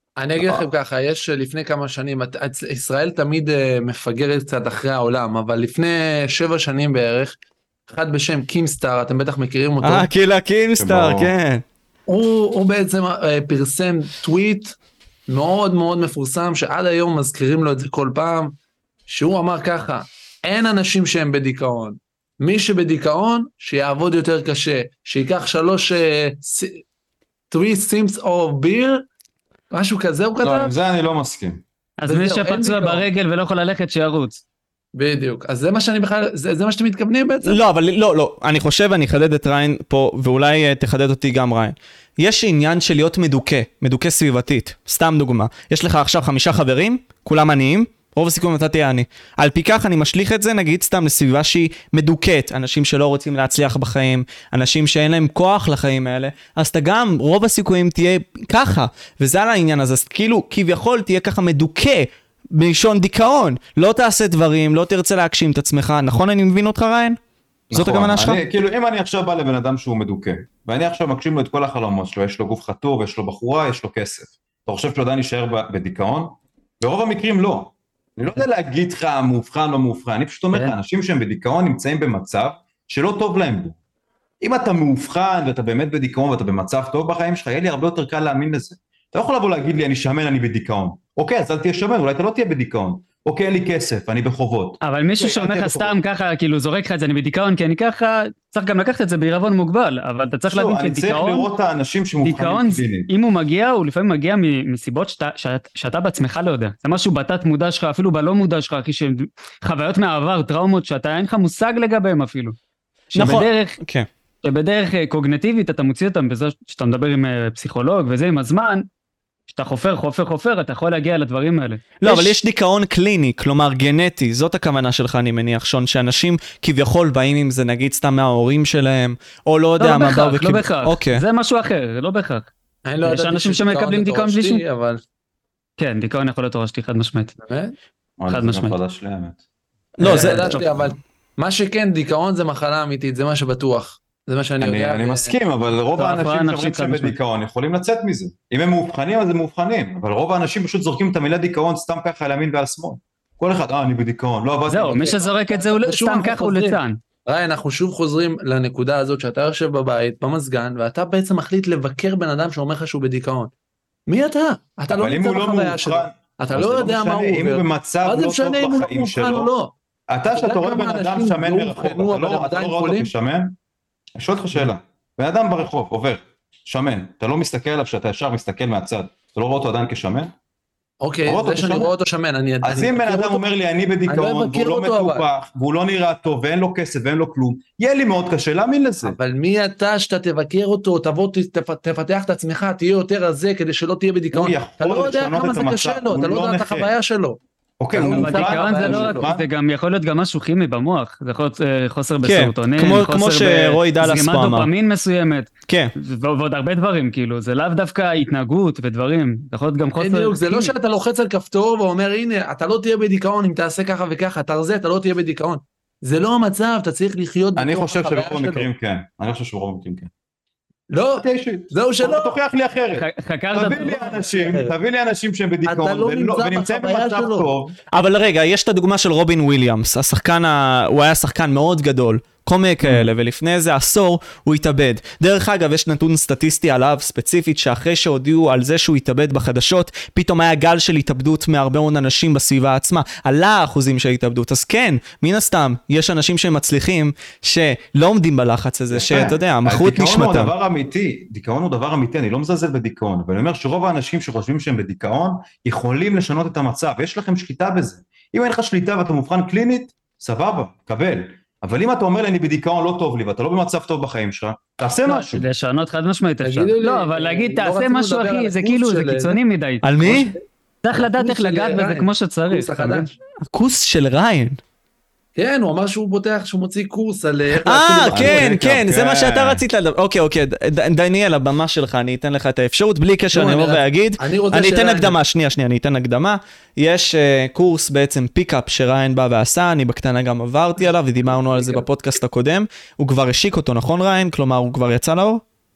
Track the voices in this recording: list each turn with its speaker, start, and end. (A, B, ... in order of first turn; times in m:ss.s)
0:00.2-0:07.4 A
0:07.9-0:10.1 A
0:09.8-0:11.6 B
0:10.8-0:11.3 C
0:12.1-0:14.8 A
0:15.3-0:18.6 A
0:19.1-0:26.8 A
0:27.5-0:29.0 A
0:29.7-0:30.7 A
0:30.4-0:31.6 C
0:32.0-0:34.4 D
0:32.0-0:33.0 A
0:34.9-0:37.6 A
0:37.4-1:07.2 B
1:07.7-1:23.8 C
1:07.7-1:08.4 B
1:24.4-1:35.9 C
1:34.8-1:41.5 D
1:40.5-1:43.1 C
1:42.2-1:52.6 D
1:53.1-1:53.8 D
1:53.1-1:54.1 B
1:54.4-1:58.8 D
1:59.5-2:02.3 D
2:02.0-2:11.2 B
2:09.8-2:12.5 D
2:12.8-2:15.0 A
2:13.0-2:14.6 D
2:15.8-2:17.3 D
2:17.4-2:17.7 A
2:18.2-2:19.4 C
2:18.3-2:18.8 D
2:20.0-2:20.6 B
2:20.0-2:25.3 A
2:20.0-2:20.7 D
2:24.6-2:35.2 C
2:26.0-2:27.1 D
2:34.7-2:37.0 D
2:35.0-2:43.5 A
2:44.1-2:49.7 A
2:44.9-2:49.5 C
2:50.1-2:53.6 C
2:50.3-2:53.1 A
2:54.2-3:00.3 C
3:01.0-3:03.4 A
3:01.3-3:01.9 C
3:02.6-3:09.2 C
3:04.1-3:05.3 A
3:09.0-3:17.4 A
3:14.3-3:16.9 C
3:17.8-3:19.4 C
3:17.9-3:19.3 A
3:18.0-3:30.7 D
3:22.2-3:24.7 B
3:30.0-3:38.7 A
3:37.6-3:40.1 C
3:40.9-3:42.4 A
3:41.2-3:47.7 C
3:42.9-3:44.2 D
3:44.2-3:44.7 A
3:45.6-3:47.5 A
3:47.9-4:10.5 B
3:52.8-3:53.1 C
4:08.9-4:25.4 C
4:25.0-4:29.8 D
4:26.4-4:29.4 A
4:29.8-4:30.4 B
4:30.0-4:30.4 A
4:30.8-4:33.1 D
4:30.9-4:33.1 A
4:33.5-4:34.6 B
4:35.4-4:38.5 A
4:37.6-4:55.4 B
4:38.1-4:39.6 C
4:43.3-4:45.2 A
4:51.3-4:51.8 A